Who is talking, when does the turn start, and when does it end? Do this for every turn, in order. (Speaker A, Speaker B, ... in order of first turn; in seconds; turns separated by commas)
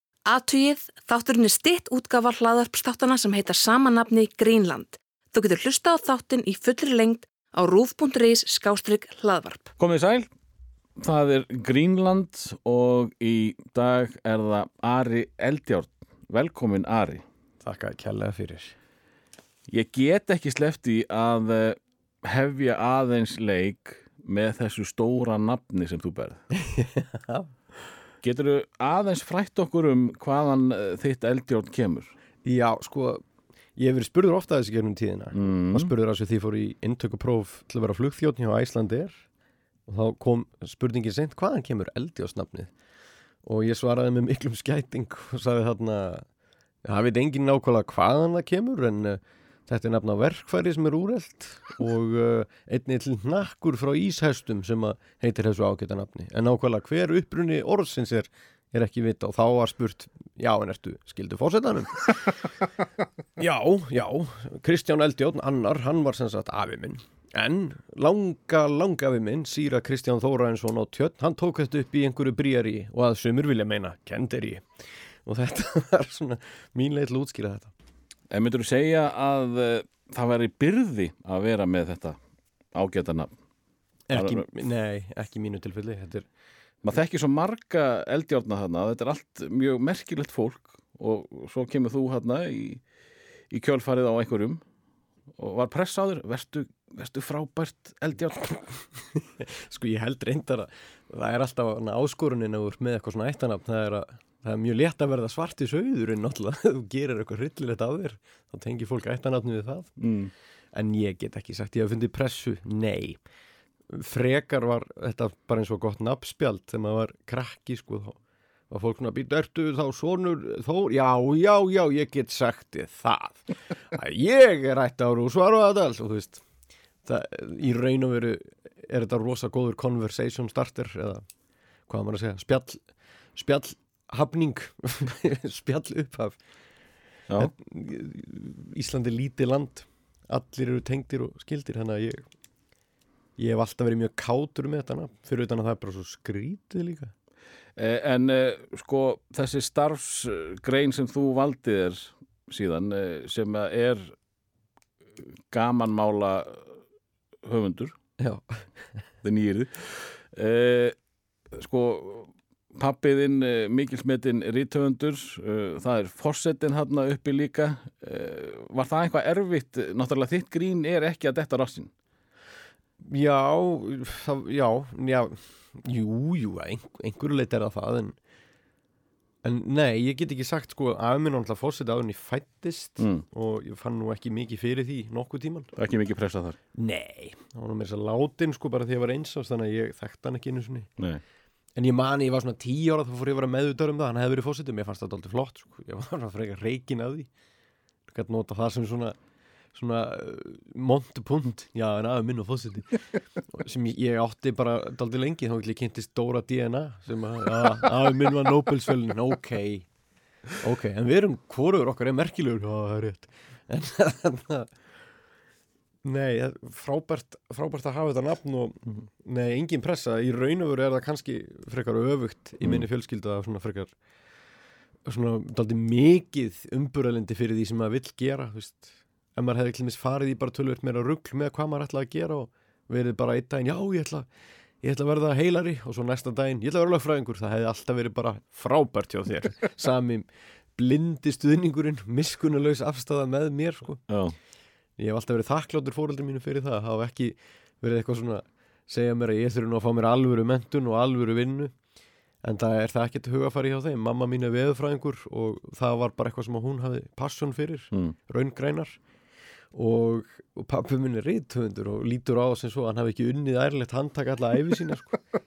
Speaker A: 0.2-9.7, Speaker B: 9.8-10.3, Speaker B: 11.0-17.2, Speaker C: 17.6-18.8, Speaker B: 19.7-26.4, Speaker C: 26.5-27.5, Speaker B: 28.2-32.1, Speaker C: 32.4-33.2, Speaker C: 33.8-39.2, Speaker B: 35.3-35.9, Speaker C: 39.9-42.7, Speaker C: 43.5-46.3, Speaker C: 46.8-62.2, Speaker C: 63.4-74.7, Speaker C: 75.2-77.7, Speaker B: 78.3-82.2, Speaker B: 82.7-83.3, Speaker C: 84.1-86.2, Speaker B: 84.1-84.5, Speaker B: 86.8-92.8, Speaker B: 93.5-94.6, Speaker B: 95.4-98.7, Speaker C: 99.4-109.9, Speaker B: 110.0-110.3, Speaker C: 110.7-113.2, Speaker C: 113.9-118.2, Speaker C: 118.7-126.4, Speaker C: 127.0-131.2, Speaker C: 131.9-132.8, Speaker C: 133.3-136.4, Speaker C: 137.3-142.2, Speaker C: 143.4-147.1, Speaker B: 147.8-154.1, Speaker B: 155.2-156.6, Speaker B: 157.4-157.9, Speaker C: 158.2-158.6, Speaker B: 159.2-160.9, Speaker B: 161.5-171.9, Speaker C: 173.0-178.1, Speaker C: 179.4-185.7, Speaker B: 183.0-183.2, Speaker B: 185.8-186.6, Speaker C: 186.8-190.9, Speaker C: 191.8-197.3, Speaker C: 198.1-199.2, Speaker C: 199.7-209.9, Speaker C: 210.6-214.7, Speaker C: 216.0-223.9, Speaker C: 225.1-234.3, Speaker C: 234.8-244.0, Speaker B: 244.1-244.3, Speaker C: 245.0-251.7, Speaker C: 252.4-259.0, Speaker C: 259.7-265.2